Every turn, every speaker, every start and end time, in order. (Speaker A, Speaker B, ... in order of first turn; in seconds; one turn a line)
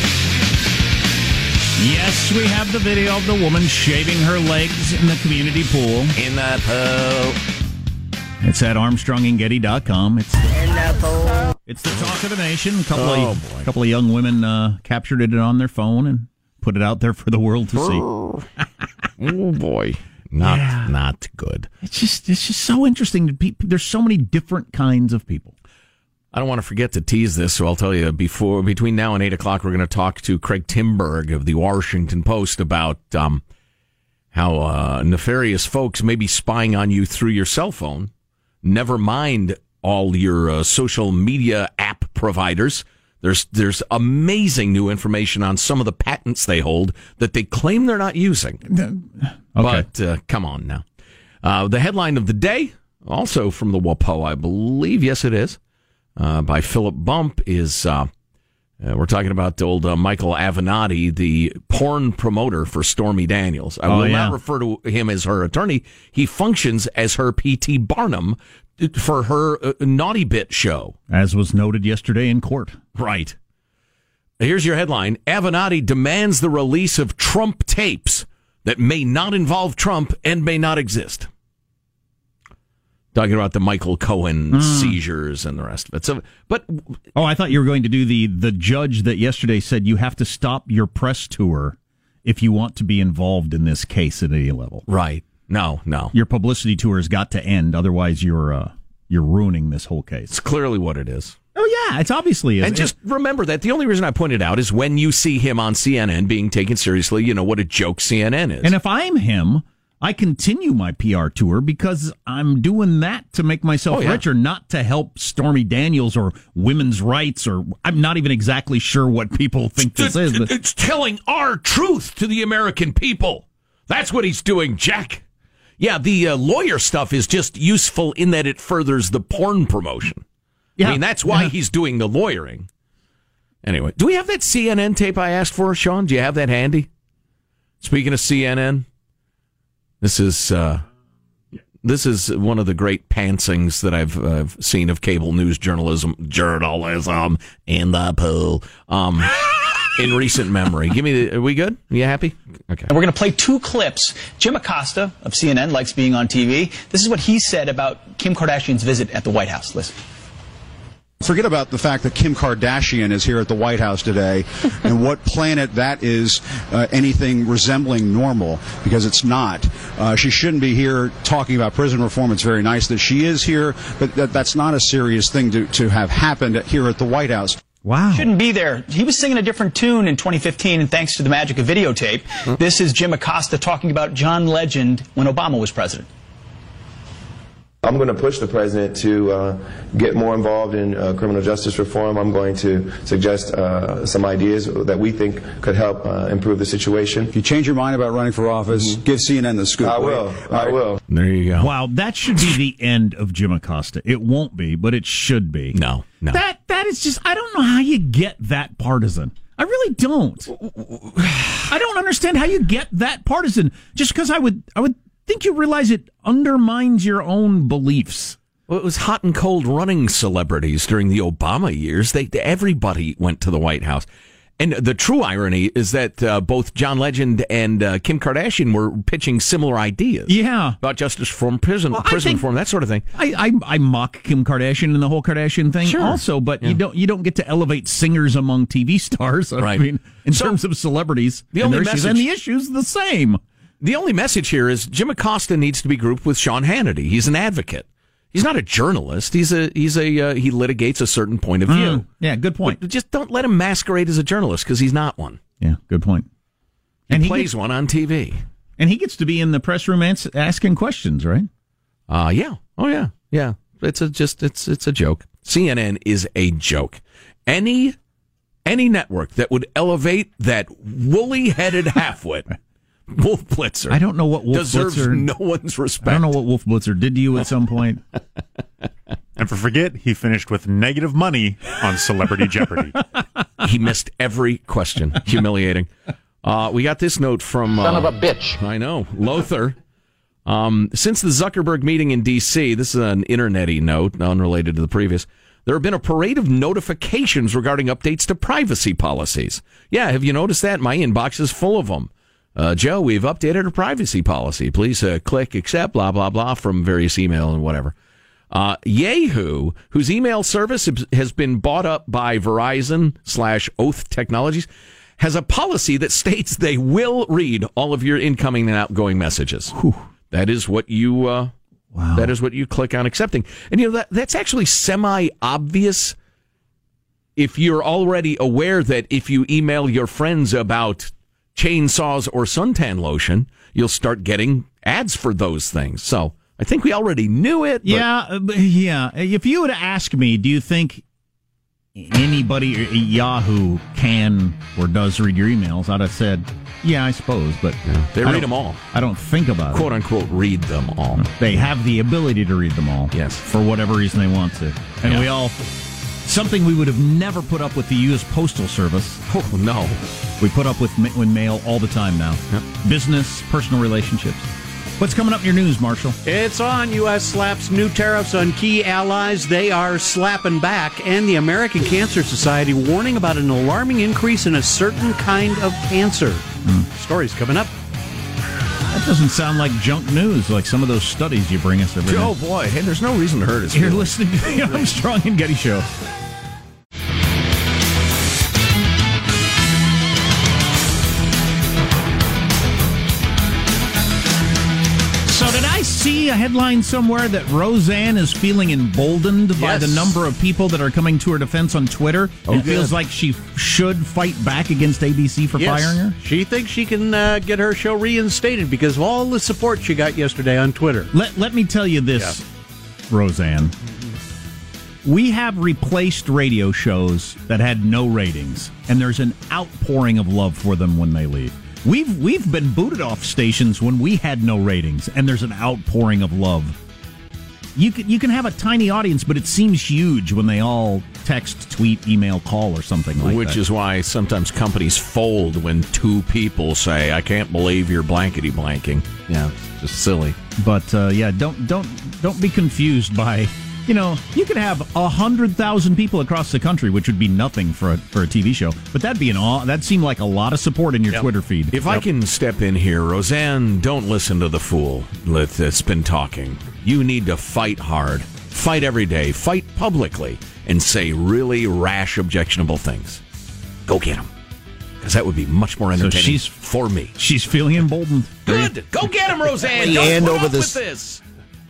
Speaker A: 1.8-6.2
Speaker B: 6.2-7.4
Speaker A: 8.4-10.6
Speaker A: 11.7-18.0
Speaker B: 12.9-13.7
Speaker B: 17.7-18.5
Speaker B: 19.2-21.7
Speaker A: 20.4-20.9
Speaker A: 21.8-25.5
Speaker B: 26.3-33.4
Speaker B: 34.3-38.1
Speaker B: 38.6-48.6
Speaker A: 48.7-49.9
Speaker B: 49.6-50.9
Speaker B: 51.4-55.6
Speaker B: 56.2-58.1
Speaker B: 58.8-71.0
Speaker A: 63.9-64.4
Speaker A: 71.1-72.8
Speaker B: 73.0-73.4
Speaker B: 74.4-81.3
Speaker B: 83.1-87.0
Speaker A: 84.5-85.0
Speaker A: 87.1-94.8
Speaker B: 94.9-96.1
Speaker A: 96.1-100.3
Speaker B: 100.3-101.4
Speaker A: 101.5-102.9
Speaker B: 102.6-108.7
Speaker A: 108.6-120.5
Speaker B: 113.9-114.2
Speaker B: 119.8-125.2
Speaker B: 125.8-130.2
Speaker A: 130.8-131.5
Speaker B: 130.8-132.7
Speaker B: 133.6-136.9
Speaker B: 137.8-138.9
Speaker B: 140.0-140.8
Speaker B: 141.8-152.9
Speaker C: 152.9-160.0
Speaker D: 161.2-177.6
Speaker A: 177.8-178.3
Speaker C: 178.1-186.1
Speaker E: 187.8-197.3
Speaker D: 197.3-200.8
Speaker E: 198.7-199.0
Speaker E: 199.8-201.0
Speaker B: 201.1-201.7
Speaker A: 201.6-210.5
Speaker B: 205.7-206.4
Speaker B: 210.5-211.7
Speaker A: 211.7-218.4
Speaker B: 218.7-224.1
Speaker B: 224.6-233.1
Speaker A: 230.3-230.8
Speaker A: 231.9-232.4
Speaker A: 233.1-243.4
Speaker B: 235.8-236.8
Speaker B: 239.6-240.6
Speaker B: 241.5-242.3
Speaker B: 243.8-252.1
Speaker A: 251.7-252.8
Speaker B: 252.6-255.4
Speaker A: 255.6-256.3
Speaker A: 257.1-257.5
Speaker B: 257.1-258.4
Speaker A: 258.8-261.5
Speaker B: 262.1-268.0
Speaker B: 268.6-272.5
Speaker B: 273.1-276.3
Speaker A: 273.9-275.3
Speaker A: 276.0-278.0
Speaker F: 279.4-283.0
Speaker B: 283.6-285.9
Speaker B: 286.4-289.8
Speaker B: 290.5-307.9
Speaker B: 308.5-319.7
Speaker A: 319.7-320.0
Speaker B: 320.3-321.5
Speaker A: 321.9-322.3
Speaker B: 322.1-326.1
Speaker B: 327.4-338.0
Speaker A: 337.8-341.1
Speaker A: 342.0-349.9
Speaker B: 347.9-348.8
Speaker B: 349.7-351.6
Speaker A: 351.2-355.7
Speaker B: 353.1-353.4
Speaker A: 356.2-359.2
Speaker B: 359.3-360.0
Speaker A: 360.4-364.5
Speaker A: 365.0-366.2
Speaker G: 366.2-377.7
Speaker A: 378.9-382.3
Speaker B: 382.1-384.1
Speaker A: 383.7-385.9
Speaker A: 395.3-406.1
Speaker G: 399.6-400.2
Speaker B: 402.5-402.9
Speaker G: 405.6-411.1
Speaker A: 411.1-412.4
Speaker A: 413.1-413.7
Speaker A: 415.1-426.8
Speaker A: 427.8-433.6
Speaker B: 433.2-440.4
Speaker A: 440.6-452.0
Speaker B: 451.7-463.2
Speaker B: 463.9-464.3
Speaker B: 465.0-467.1
Speaker A: 466.0-466.5
Speaker A: 467.1-468.7
Speaker B: 468.5-471.2
Speaker G: 469.7-470.7
Speaker A: 469.8-470.3